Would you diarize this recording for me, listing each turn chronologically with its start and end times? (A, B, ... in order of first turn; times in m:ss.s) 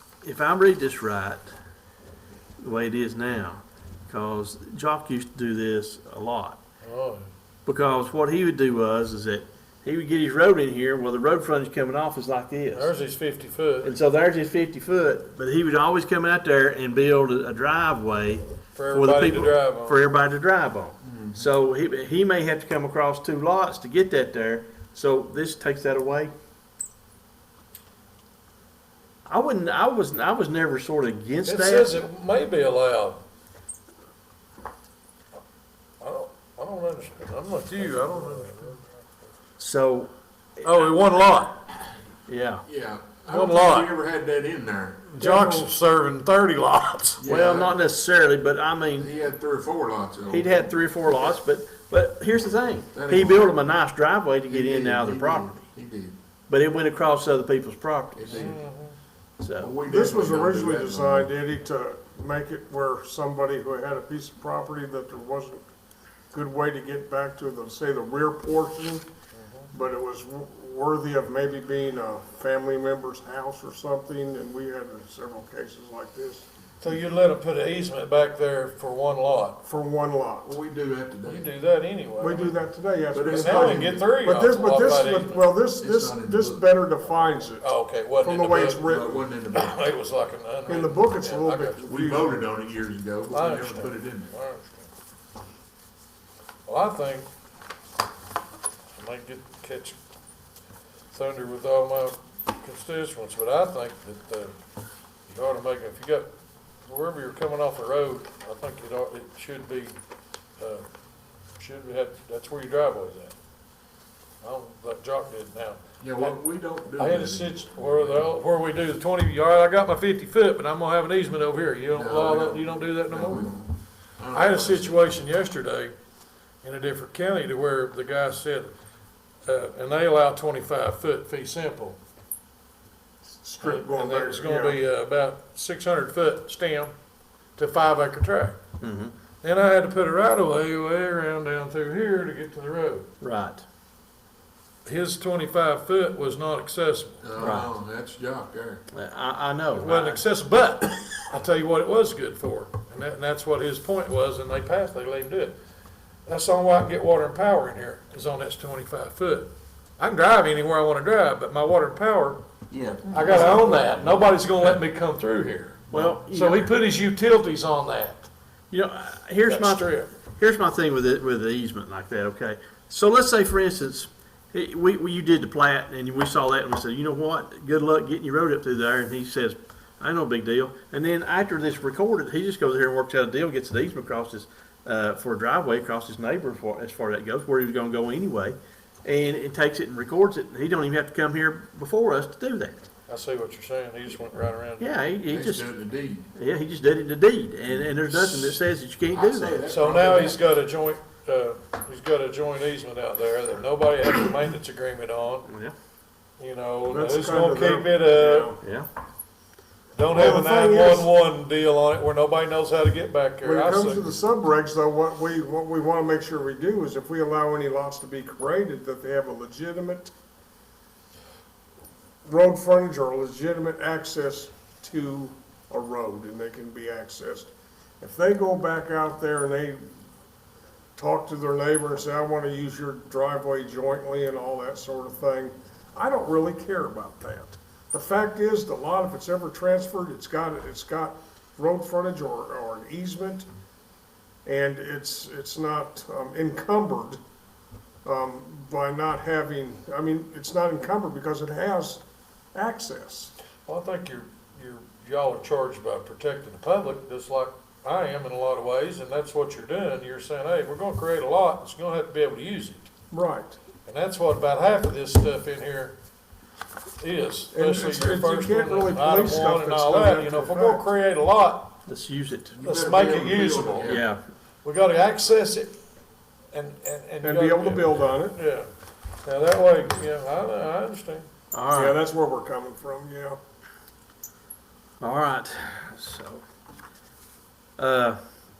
0:00.2-0:01.5 A
0:02.6-0:06.6 A
0:06.8-0:07.3 B
0:07.6-0:12.9 A
0:12.7-0:13.9 B
0:13.8-0:26.3 A
0:18.7-0:20.0 B
0:21.1-0:21.4 C
0:29.2-0:32.0 A
0:31.4-0:33.2 B
0:36.0-0:38.8 B
0:39.6-0:40.1 A
0:40.6-0:41.6 B
0:42.3-0:42.6 A
0:42.7-0:45.1 C
0:43.3-0:43.9 B
0:45.1-0:47.2 B
0:45.2-0:45.7 D
0:47.2-0:47.8 C
0:47.2-0:49.1 A
0:49.0-0:51.4 C
0:50.3-0:55.6 A
0:52.9-0:53.5 C
0:54.4-0:56.2 C
0:56.5-0:58.5 A
0:58.2-0:58.6 C
0:58.3-0:58.9 B
0:59.4-0:59.7 A
0:59.6-1:01.3 C
0:59.9-1:05.6 D
1:06.3-1:09.0 D
1:09.3-1:09.7 B
1:09.7-1:16.4 D
1:16.8-1:19.6 B
1:19.6-1:20.5 D
1:20.4-1:21.5 C
1:21.2-1:22.6 B
1:22.2-1:27.7 D
1:23.1-1:24.1 C
1:23.2-1:25.5 B
1:25.8-1:26.6 C
1:27.6-1:28.8 B
1:28.2-1:29.2 D
1:28.8-1:29.8 C
1:29.5-1:31.8 B
1:30.7-1:32.4 D
1:31.8-1:34.3 C
1:33.3-1:34.9 B
1:36.6-1:37.3 B
1:39.0-1:40.0 B
1:41.1-1:44.5 B
1:45.3-1:46.3 B
1:46.8-1:49.9 B
1:50.6-1:50.8 B
1:51.6-1:53.3 B
1:54.4-1:56.3 B
1:56.0-1:58.3 C
1:56.9-2:03.5 B
2:01.9-2:05.1 C
2:04.3-2:05.9 B
2:06.6-2:08.7 B
2:09.4-2:12.0 B
2:13.3-2:14.8 D
2:13.6-2:16.9 B
2:17.6-2:18.6 B
2:18.8-2:19.1 A
2:19.4-2:23.1 B
2:23.2-2:23.6 A
2:24.8-2:27.6 B
2:27.2-2:28.8 C
2:27.4-2:27.7 A
2:28.9-2:30.2 A
2:29.7-2:35.6 B
2:36.2-2:42.4 B
2:42.7-2:43.9 A
2:43.1-2:48.3 B
2:43.1-2:43.6 C
2:45.9-2:46.7 A
2:48.7-3:12.8 A
2:49.5-2:50.1 B
3:13.1-3:14.9 B
3:14.8-3:15.7 A
3:15.3-3:16.3 C
3:16.3-3:19.7 A
3:17.7-3:18.6 C
3:19.1-3:20.4 C
3:19.7-3:25.5 B
3:25.5-3:25.7 A
3:26.4-3:28.5 B
3:26.9-3:28.6 D
3:28.6-3:28.9 A
3:30.0-3:34.1 B
3:30.1-3:31.1 D
3:33.4-3:40.1 D
3:42.2-3:47.5 D
3:48.0-3:49.8 D
3:51.0-4:03.4 D
4:04.4-4:07.2 D
4:08.0-4:12.0 D
4:12.5-4:13.3 D
4:13.7-4:22.9 B
4:23.1-4:23.6 D
4:23.9-4:25.9 B
4:27.0-4:31.8 B
4:27.5-4:30.8 D
4:31.8-4:32.5 A
4:32.5-4:34.0 C
4:32.6-4:33.9 B
4:33.8-4:34.2 A
4:34.6-4:35.7 B
4:36.5-4:38.7 B
4:37.2-4:38.4 D
4:39.2-4:41.3 B
4:41.5-4:42.0 A
4:41.7-4:43.4 D
4:45.0-4:46.4 A
4:47.8-4:48.2 A